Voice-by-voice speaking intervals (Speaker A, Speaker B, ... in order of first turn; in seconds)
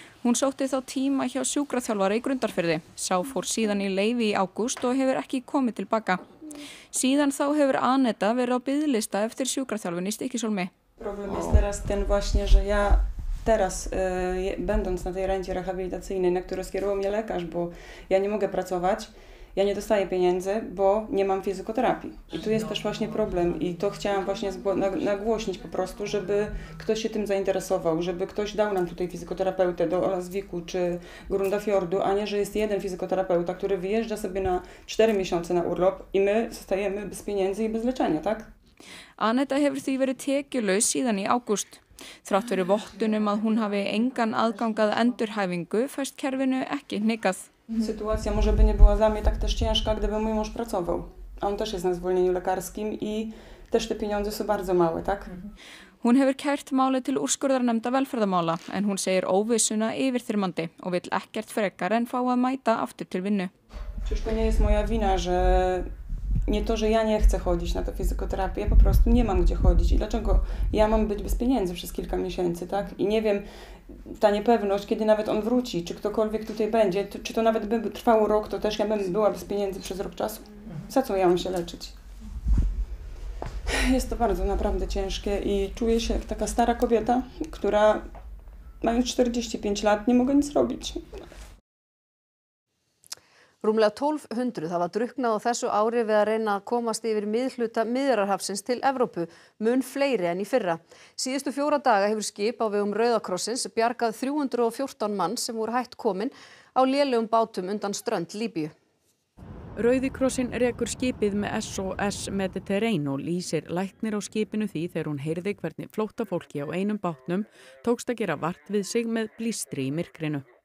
Speaker A: 0.2-6.2, 6.9-10.7, 39.2-47.5, 56.0-63.5
Speaker B: 11.0-38.5, 47.8-55.3, 64.0-65.9, 66.5-81.9, 83.7-88.1, 88.8-91.2
Speaker C: 93.6-108.7
Speaker D: 109.8-120.4